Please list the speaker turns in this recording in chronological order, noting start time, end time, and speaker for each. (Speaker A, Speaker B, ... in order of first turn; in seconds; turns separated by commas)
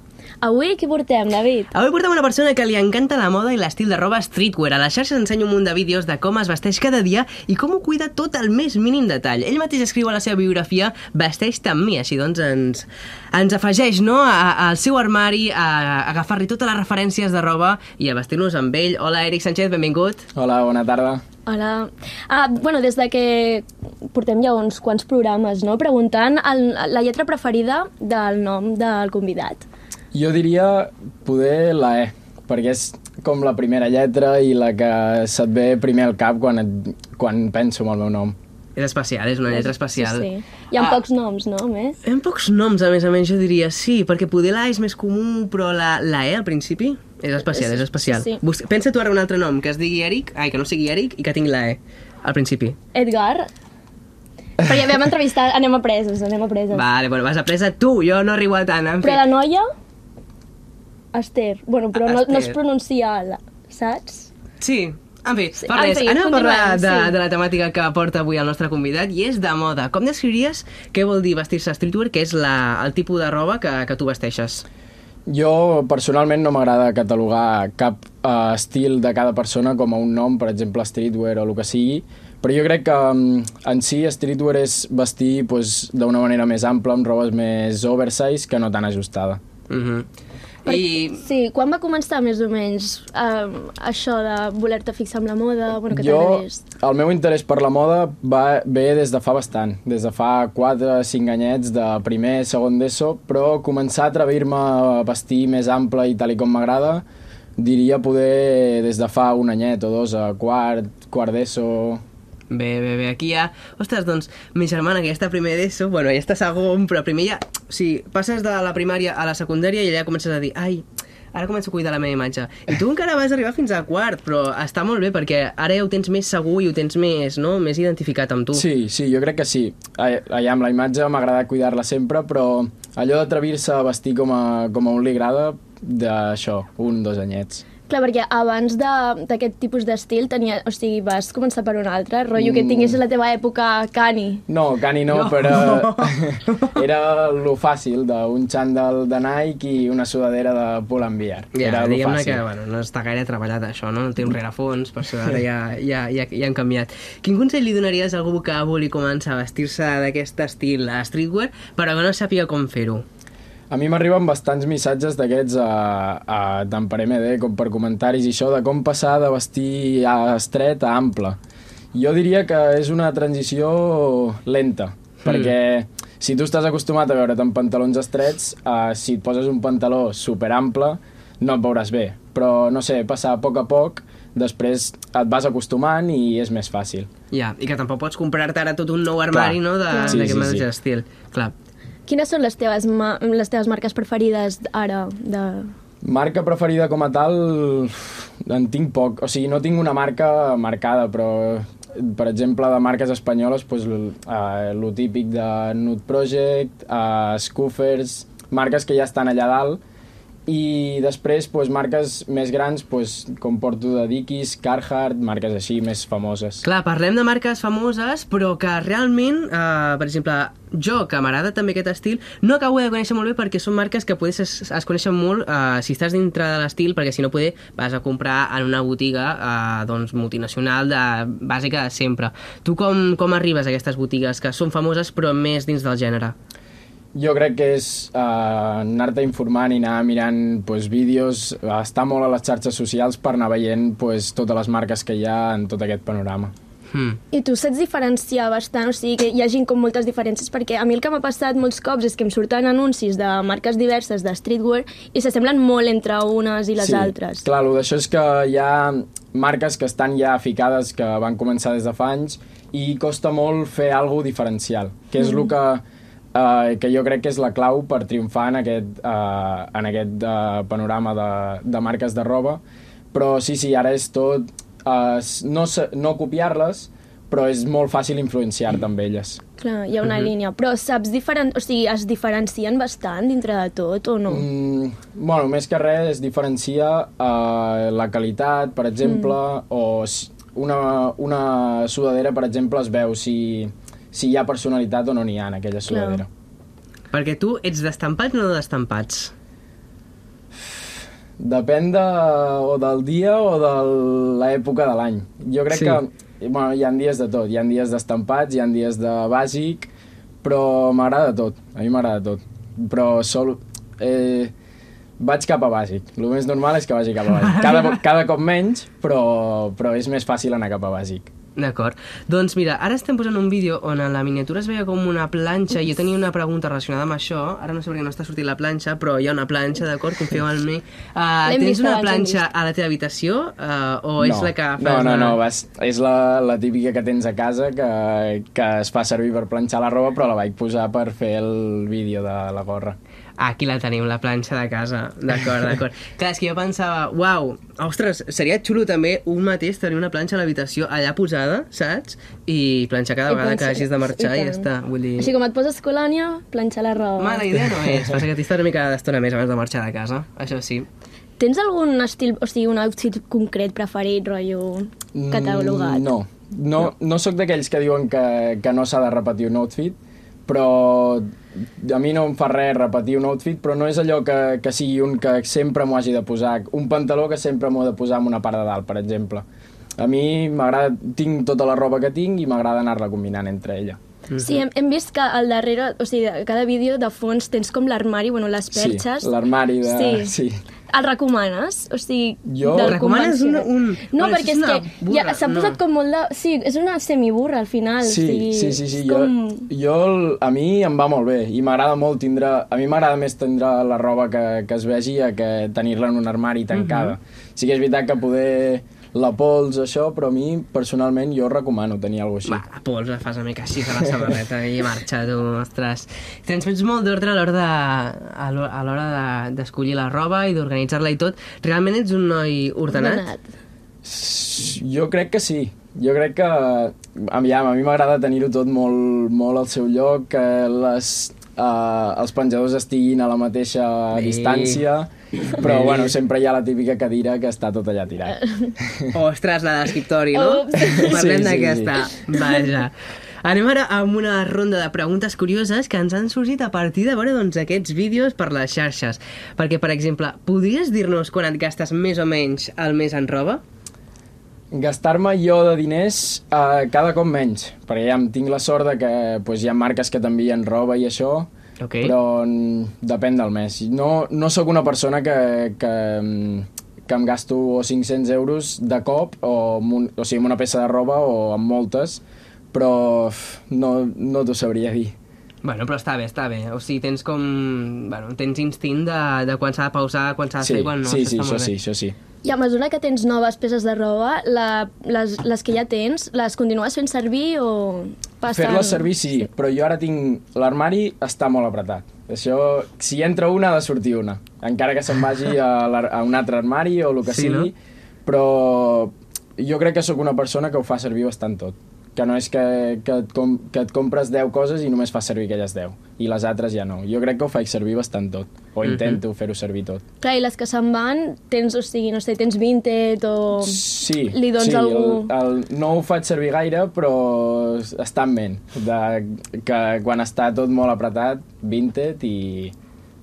Speaker A: 0.4-1.7, Speaker B: 1.7-20.2, Speaker C: 20.3-21.2, Speaker A: 21.5-29.6, Speaker C: 30.1-38.3, Speaker B: 38.8-41.0, Speaker A: 39.5-42.0, Speaker B: 42.0-52.8, Speaker A: 47.4-48.4, Speaker A: 52.9-53.5, Speaker A: 54.6-56.8, Speaker B: 56.7-59.2, Speaker A: 59.0-59.6, Speaker A: 61.1-64.3, Speaker B: 61.9-62.5, Speaker B: 64.6-74.6, Speaker A: 65.6-67.2, Speaker C: 75.3-89.4, Speaker B: 89.7-90.0, Speaker B: 90.6-91.2, Speaker A: 90.7-96.6, Speaker C: 95.9-107.0, Speaker C: 107.6-112.0, Speaker B: 112.5-128.6, Speaker C: 128.5-137.6, Speaker A: 137.9-144.4, Speaker C: 142.3-143.0, Speaker C: 144.5-152.4, Speaker B: 145.1-146.8, Speaker B: 151.5-163.0, Speaker C: 163.7-171.4, Speaker C: 171.9-187.1, Speaker B: 175.2-175.5, Speaker B: 187.3-191.5, Speaker C: 189.3-190.7, Speaker A: 189.9-190.3, Speaker A: 192.1-195.7, Speaker C: 196.0-209.8, Speaker C: 210.5-216.6, Speaker B: 216.6-236.3, Speaker C: 237.1-246.5, Speaker B: 246.9-247.2, Speaker A: 247.3-257.4, Speaker C: 256.8-265.8, Speaker A: 265.2-265.5, Speaker C: 266.3-272.6, Speaker C: 273.1-279.4, Speaker A: 279.6-284.4, Speaker C: 284.3-296.3, Speaker A: 289.0-289.3, Speaker A: 295.9-296.2, Speaker B: 297.1-299.3, Speaker C: 301.4-309.9, Speaker B: 305.7-306.0, Speaker C: 310.4-314.5, Speaker C: 315.2-321.3, Speaker B: 317.3-318.0, Speaker B: 321.6-335.4, Speaker A: 331.4-332.4, Speaker C: 334.2-343.0, Speaker B: 343.4-355.3, Speaker A: 353.3-354.7, Speaker A: 355.2-357.4, Speaker B: 357.2-360.9, Speaker A: 361.4-366.1, Speaker C: 365.1-379.4, Speaker C: 380.0-384.0, Speaker A: 384.4-390.3, Speaker B: 384.4-384.6, Speaker C: 388.7-390.6, Speaker A: 390.9-399.7, Speaker C: 392.4-393.0, Speaker B: 392.7-395.8, Speaker C: 398.0-412.6, Speaker B: 406.7-407.1, Speaker B: 412.4-423.3, Speaker A: 422.9-423.5, Speaker C: 424.0-439.1, Speaker B: 434.1-434.8, Speaker B: 435.4-436.1, Speaker B: 439.1-453.6, Speaker A: 440.3-441.3, Speaker C: 440.9-442.0, Speaker C: 454.7-475.1, Speaker B: 461.8-462.1, Speaker B: 475.6-481.7, Speaker C: 480.6-482.1, Speaker A: 482.4-489.4, Speaker C: 488.5-510.0, Speaker B: 497.2-497.7, Speaker B: 508.8-509.2, Speaker A: 510.2-515.3, Speaker C: 513.6-522.7